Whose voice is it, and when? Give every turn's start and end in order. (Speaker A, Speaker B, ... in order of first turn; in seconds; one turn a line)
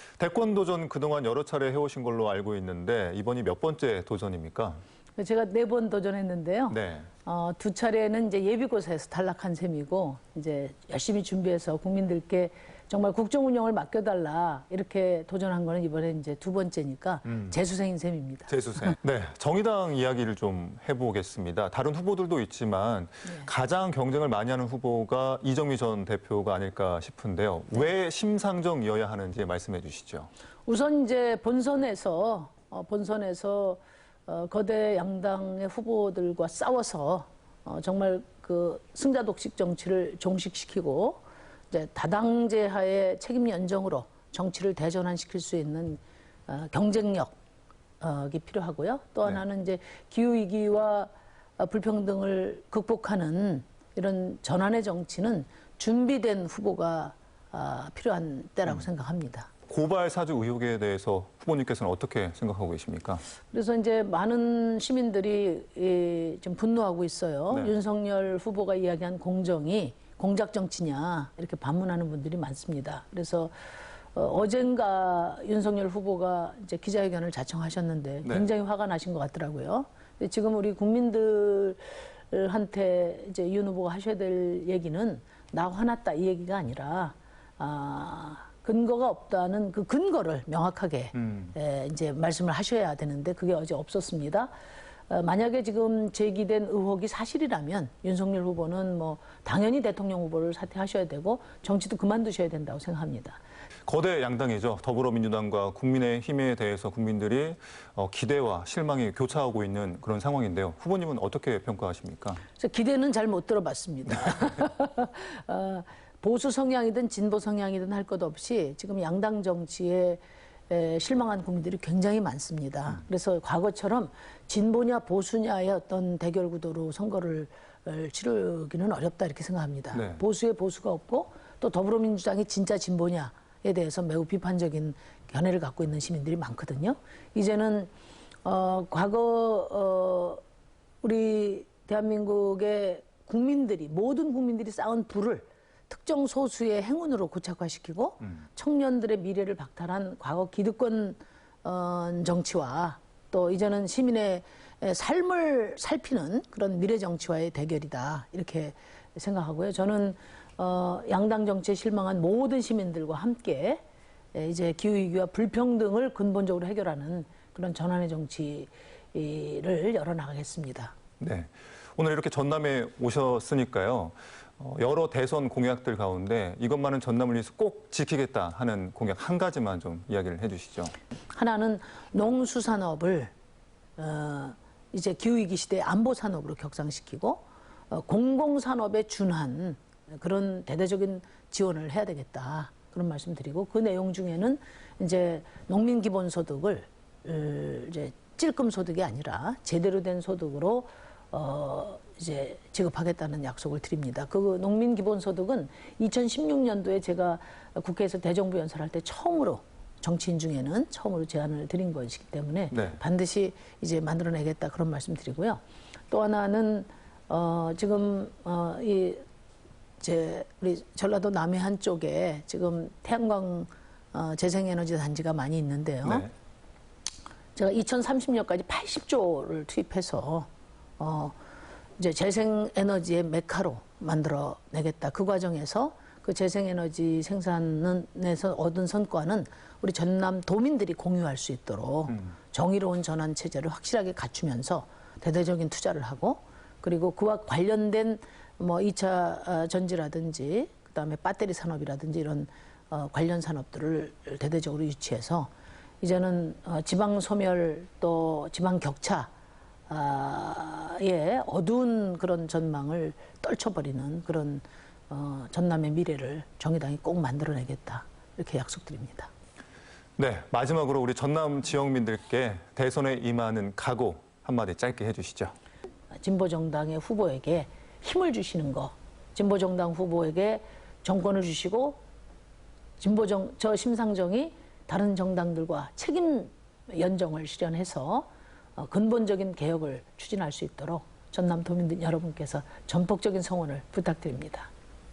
Speaker A: 0.2-4.8
Speaker B: 5.2-18.6
Speaker A: 6.7-7.1
Speaker A: 18.5-30.3
Speaker B: 30.7-47.3
Speaker B: 48.0-59.5
Speaker A: 59.7-63.2
Speaker B: 63.5-73.5
Speaker B: 74.1-94.5
Speaker B: 95.1-103.4
Speaker A: 103.9-112.4
Speaker B: 112.6-137.9
Speaker B: 138.4-140.4
Speaker B: 141.0-163.8
Speaker B: 164.3-170.9
Speaker A: 171.2-180.9
Speaker B: 181.3-183.3
Speaker B: 184.0-219.2
Speaker A: 212.7-213.0
Speaker B: 220.0-226.3
Speaker B: 227.5-230.5
Speaker B: 231.0-231.3
Speaker B: 232.0-259.3
Speaker B: 259.9-269.3
Speaker A: 270.2-275.5
Speaker B: 276.1-282.0
Speaker B: 283.0-294.7